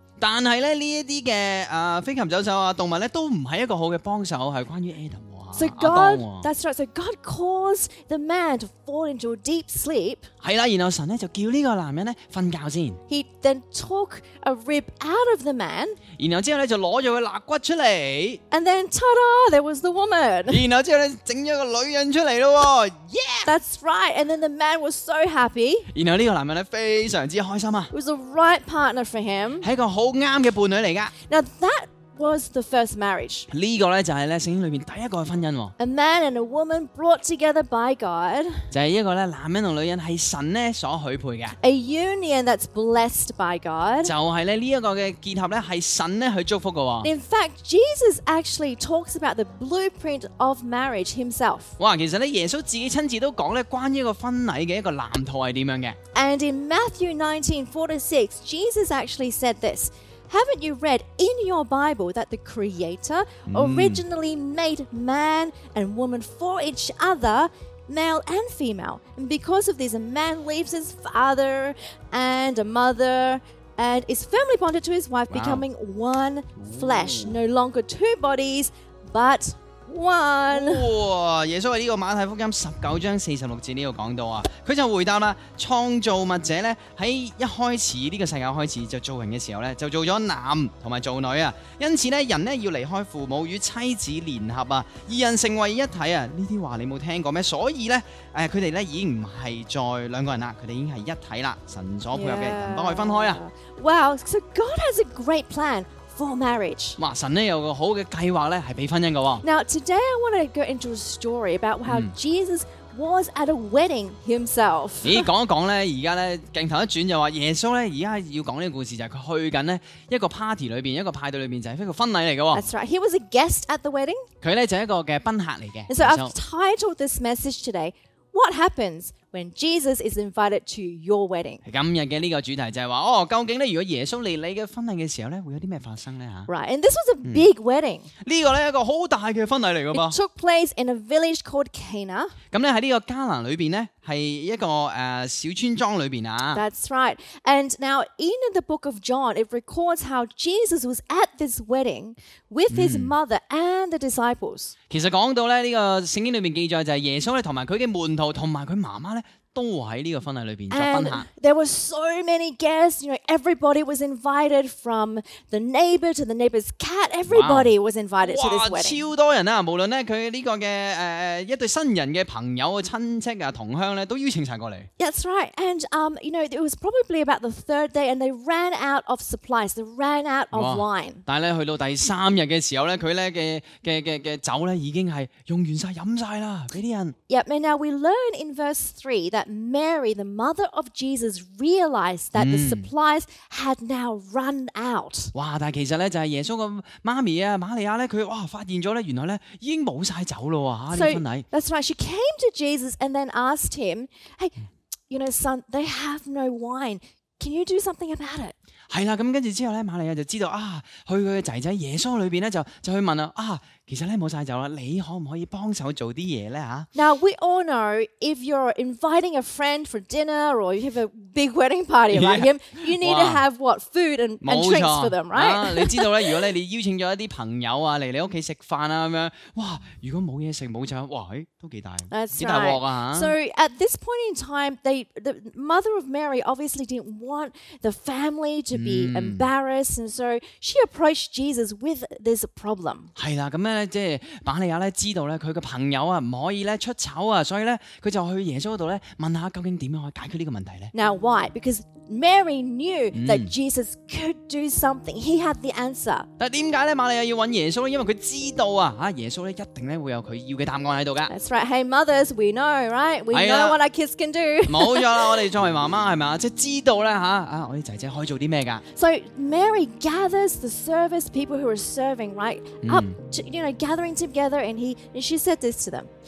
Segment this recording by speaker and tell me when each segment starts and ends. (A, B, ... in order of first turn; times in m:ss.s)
0:00.2-0:06.5 A
0:05.6-0:10.3 B
0:10.4-0:13.0 A
0:13.1-0:16.0 B
0:16.2-0:18.4 A
0:18.5-0:20.6 B
0:20.5-0:23.5 A
0:23.5-0:25.9 B
0:25.9-0:27.9 A
0:27.9-0:29.7 B
0:29.6-0:31.1 A
0:31.3-0:33.5 B
0:33.5-0:35.7 A
0:35.8-0:38.7 B
0:38.7-0:41.6 A
0:41.6-0:44.1 B
0:44.0-0:47.1 A
0:47.0-0:51.8 B
0:51.8-0:56.0 A
0:56.2-1:20.9 B
1:03.5-1:04.0 A
1:15.3-1:15.6 A
1:16.6-1:17.4 A
1:20.5-1:43.4 A
1:42.1-1:47.0 B
1:47.0-1:49.4 A
1:49.4-1:55.3 B
1:51.9-1:52.1 A
1:55.0-2:02.6 A
2:02.5-2:04.3 B
2:04.4-2:06.4 A
2:05.9-2:11.6 B
2:11.6-2:16.5 A
2:16.5-2:18.1 B
2:18.2-2:20.2 A
2:19.9-2:22.3 B
2:22.5-2:26.6 A
2:26.5-2:34.7 B
2:32.7-2:33.1 A
2:34.9-2:41.3 A
2:40.7-2:49.0 B
2:47.3-2:54.9 A
2:55.0-3:01.2 B
3:00.5-3:07.2 A
3:07.3-3:15.3 B
3:12.4-3:12.9 A
3:15.3-3:21.4 A
3:20.9-3:24.6 B
3:25.1-3:28.5 B
3:28.9-3:36.9 A
3:37.0-3:46.4 B
3:42.1-3:43.4 A
3:44.4-3:53.4 A
3:52.1-4:03.1 B
3:58.7-3:59.5 A
4:03.2-4:10.9 A
4:10.9-4:16.3 B
4:13.1-4:13.5 A
4:16.4-4:21.3 A
4:21.3-4:25.5 B
4:23.3-4:23.8 A
4:24.7-4:28.8 A
4:28.9-4:36.1 B
4:32.8-4:33.2 A